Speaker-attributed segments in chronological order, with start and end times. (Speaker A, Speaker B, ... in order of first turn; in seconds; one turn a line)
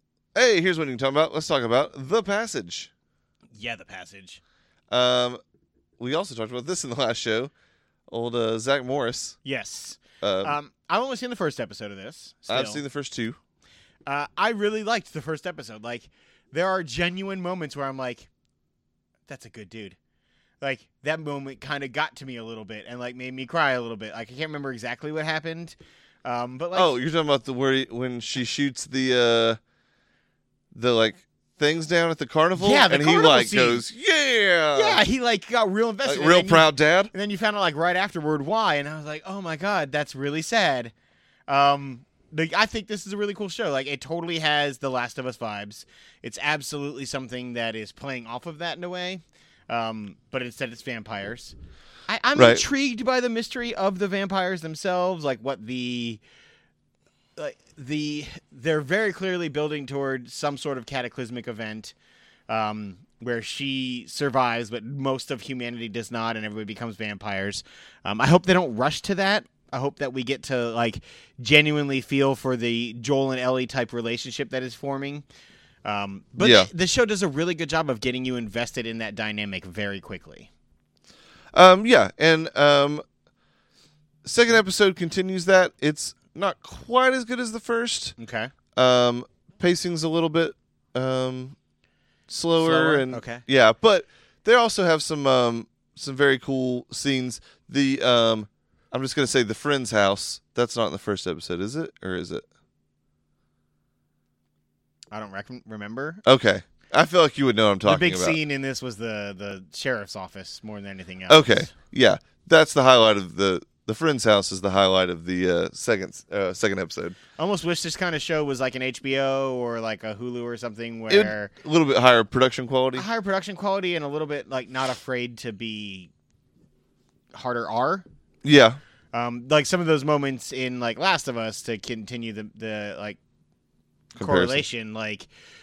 Speaker A: 0.3-2.9
Speaker B: 3.5-4.4
Speaker A: 4.9-5.4
Speaker A: 6.0-7.5
Speaker A: 8.1-9.4
Speaker B: 9.4-12.8
Speaker A: 10.2-10.5
Speaker A: 12.5-13.4
Speaker B: 14.1-18.3
Speaker B: 19.3-20.0
Speaker B: 20.6-26.9
Speaker A: 26.7-29.6
Speaker A: 30.7-35.0
Speaker B: 32.5-33.8
Speaker B: 34.7-40.9
Speaker A: 36.0-37.1
Speaker B: 41.5-51.5
Speaker B: 52.1-56.2
Speaker A: 52.4-52.6
Speaker B: 57.4-61.9
Speaker B: 62.5-75.2
Speaker B: 75.8-80.5
Speaker A: 76.4-76.7
Speaker A: 81.5-83.0
Speaker A: 84.2-88.2
Speaker B: 88.2-88.5
Speaker A: 88.8-91.5
Speaker A: 92.3-102.4
Speaker B: 92.6-93.4
Speaker B: 105.1-106.2
Speaker A: 106.2-108.4
Speaker B: 107.8-111.7
Speaker A: 111.3-117.2
Speaker B: 117.4-121.5
Speaker A: 121.1-123.0
Speaker B: 122.9-126.1
Speaker B: 127.3-128.0
Speaker A: 128.4-128.8
Speaker B: 129.1-133.2
Speaker A: 134.2-134.6
Speaker B: 134.2-135.3